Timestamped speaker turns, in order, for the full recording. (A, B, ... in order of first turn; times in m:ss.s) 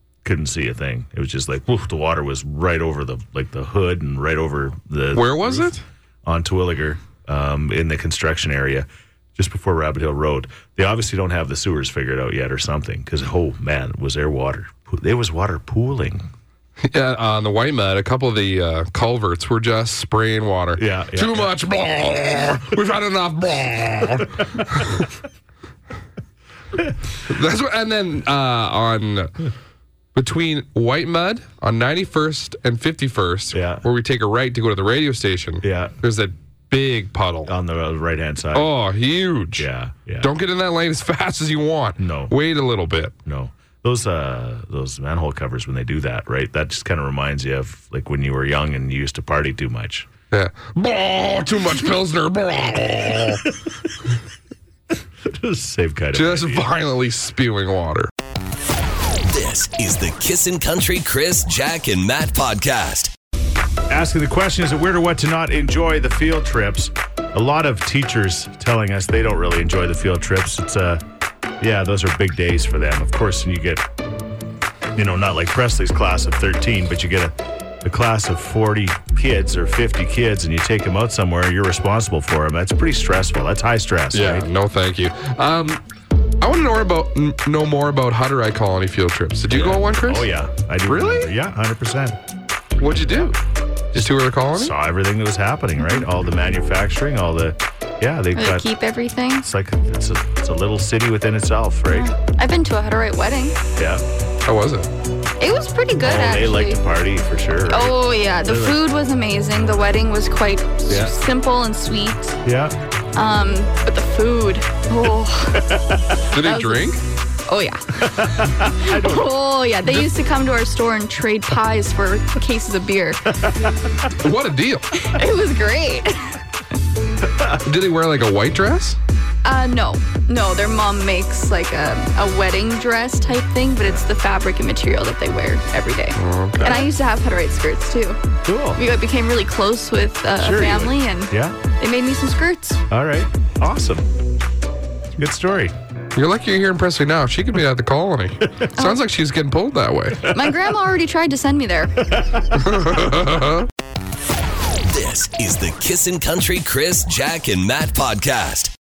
0:00.2-0:05.7 A
0:05.1-0:05.8 B
0:06.2-0:16.3 A
0:16.8-0:25.0 B
0:20.7-0:21.5 A
0:27.2-0:29.5 B
0:30.1-0:37.5 B
0:33.5-0:33.8 A
0:35.6-0:35.9 A
0:37.5-0:38.7 A
0:38.5-0:39.7 B
0:39.5-0:40.3 A
0:40.2-0:43.1 B
0:42.0-0:42.3 A
0:43.2-0:50.1 A
0:50.3-0:53.5 B
0:55.2-0:56.7 A
0:56.1-0:58.1 B
0:59.3-1:03.1 C
1:03.9-1:11.0 A
1:11.6-1:13.8 A
1:14.9-1:24.5 A
1:24.1-1:25.8 B
1:26.4-1:30.3 B
1:29.5-1:32.2 A
1:30.8-1:31.3 B
1:32.8-1:33.4 B
1:33.0-1:33.3 A
1:33.9-1:34.7 B
1:33.9-1:38.6 A
1:38.3-1:39.4 D
1:39.4-1:42.1 A
1:41.9-1:43.6 D
1:43.8-1:44.0 A
1:44.4-1:44.9 B
1:45.4-1:46.8 D
1:46.0-1:48.8 A
1:47.7-1:52.4 D
1:50.9-1:51.1 A
1:52.4-1:52.8 A
1:53.1-1:56.9 D
1:55.7-1:56.0 A
1:56.3-1:57.0 B
1:57.5-2:03.4 D
1:58.0-1:59.3 A
2:04.1-2:04.9 B
2:04.9-2:06.4 D
2:07.6-2:09.0 B
2:09.4-2:18.2 D
2:16.2-2:16.8 B
2:16.6-2:16.9 A
2:18.4-2:18.8 A
2:18.8-2:22.8 D
2:20.4-2:21.6 A
2:22.9-2:24.1 A
2:25.2-2:25.7 A
2:26.1-2:30.3 B
2:30.3-2:32.1 D
2:32.3-2:32.6 A
2:32.6-2:33.7 B
2:34.8-2:38.7 C